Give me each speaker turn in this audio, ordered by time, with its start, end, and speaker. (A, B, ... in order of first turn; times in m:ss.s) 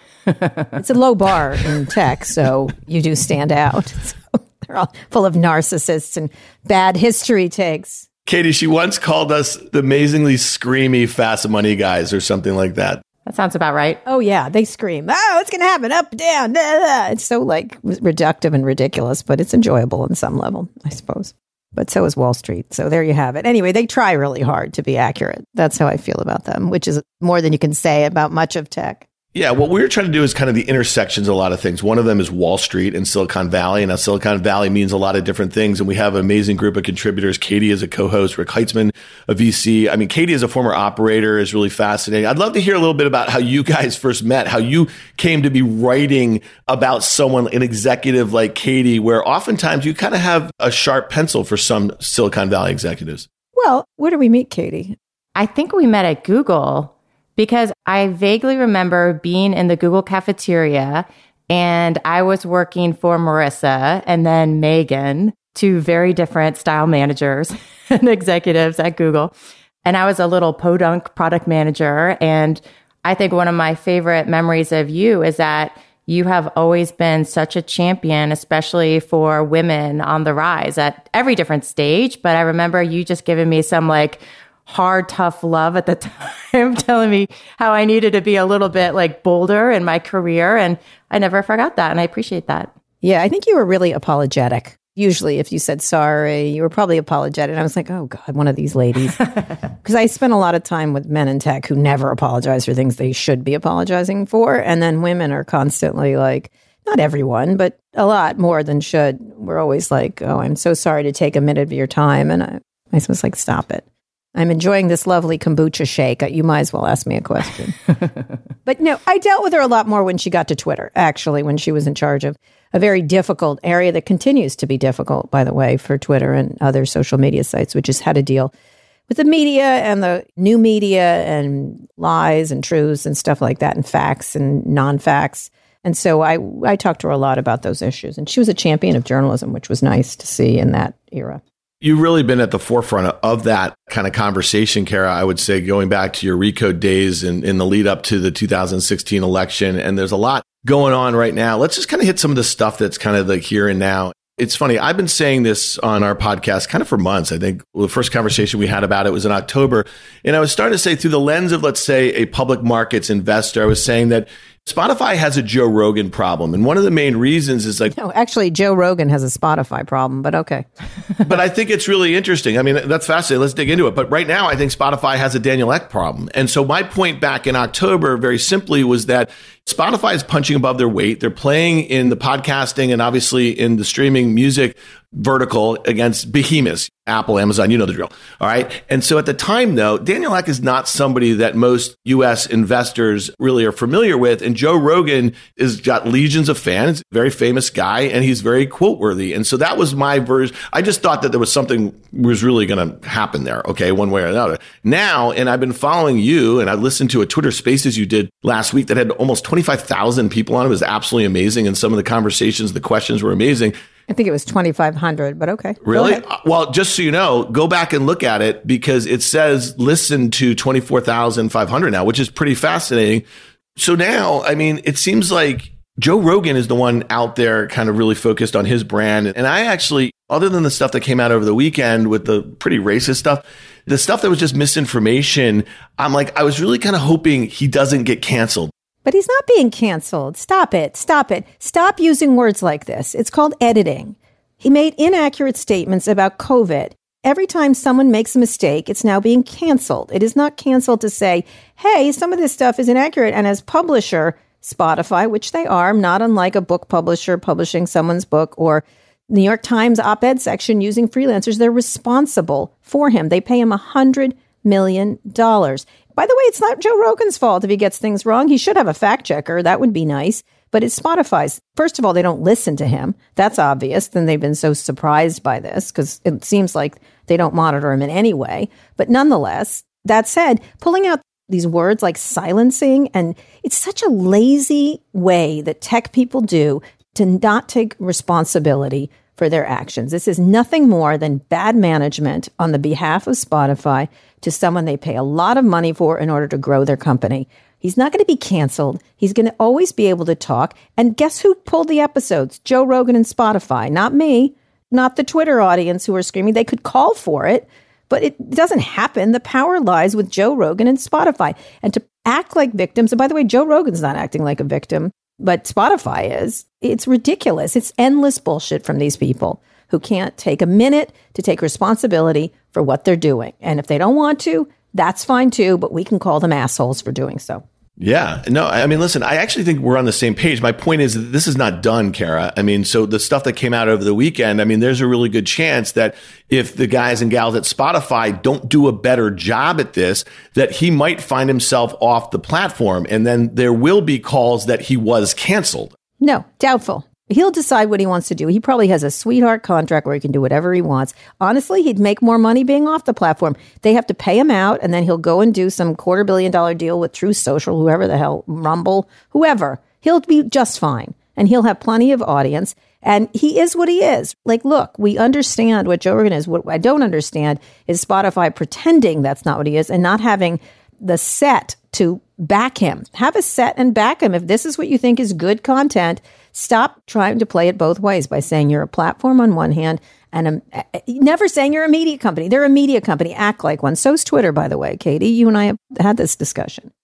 0:00.4-0:00.6 A
0:00.8-0:08.1 B
0:08.3-0:13.0 C
0:13.3-0:14.0 A
0:14.1-0:29.0 B
0:29.3-0:53.3 C
0:53.6-0:55.0 B
0:55.4-1:09.3 A
1:09.8-1:32.7 A
1:33.0-1:53.8 B
1:54.4-1:57.8 B
1:58.6-2:08.5 B
2:09.1-2:21.4 B
2:21.8-2:47.9 C
2:47.9-2:50.6 B
2:51.2-3:33.8 C
3:34.1-3:36.2 B
3:35.8-3:43.2 C
3:43.8-3:58.7 C
3:59.0-5:27.6 B
5:28.0-5:46.0 C
5:46.2-6:26.9 B